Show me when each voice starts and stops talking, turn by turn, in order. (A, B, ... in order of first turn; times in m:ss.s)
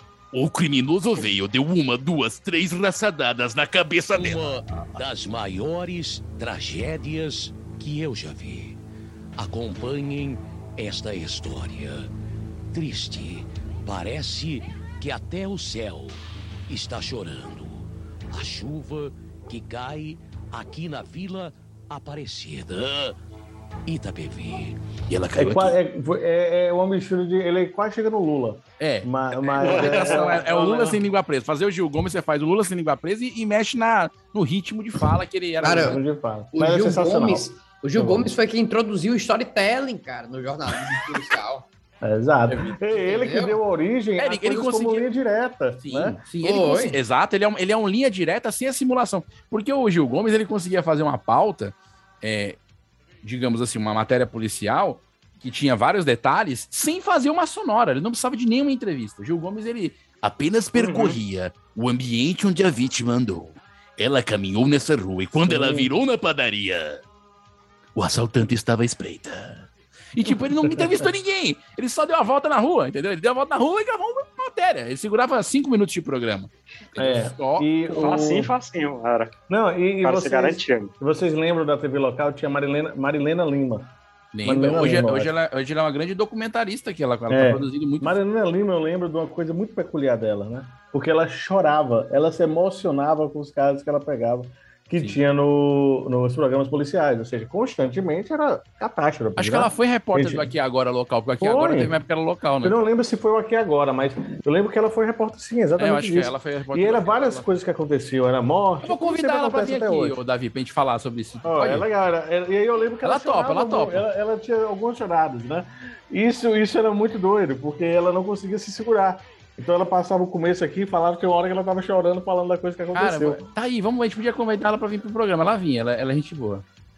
0:00.3-0:04.6 A
0:04.1-0:08.8 B
0:09.4-0:12.1 B
0:12.7-0:23.2 B
0:23.9-0:24.8 B
0:25.1-0:25.8 A
0:25.4-0:31.0 C
0:28.8-0:36.0 A
0:29.6-0:30.3 D
0:35.6-0:36.0 E
0:35.7-0:37.4 C
0:36.6-0:41.7 E
0:38.0-0:38.3 C
0:42.0-0:46.2 C
0:42.5-0:43.0 A
0:43.0-0:43.6 E
0:44.2-0:45.1 A
0:45.8-0:52.6 A
0:46.4-0:47.0 E
0:53.2-1:07.0 A
1:00.8-1:01.2 D
1:05.4-1:05.9 C
1:08.0-1:17.7 A
1:10.4-1:11.0 C
1:17.0-1:18.5 C
1:17.9-1:19.3 D
1:19.5-1:23.9 C
1:20.0-1:20.9 D
1:24.3-1:28.2 A
1:24.4-1:25.3 C
1:27.3-1:40.5 C
1:39.4-1:42.8 A
1:41.4-1:41.9 C
1:42.6-1:50.2 C
1:45.8-1:47.5 A
1:48.8-1:51.9 A
1:51.4-2:03.4 C
1:53.0-1:54.1 A
2:02.9-2:06.6 A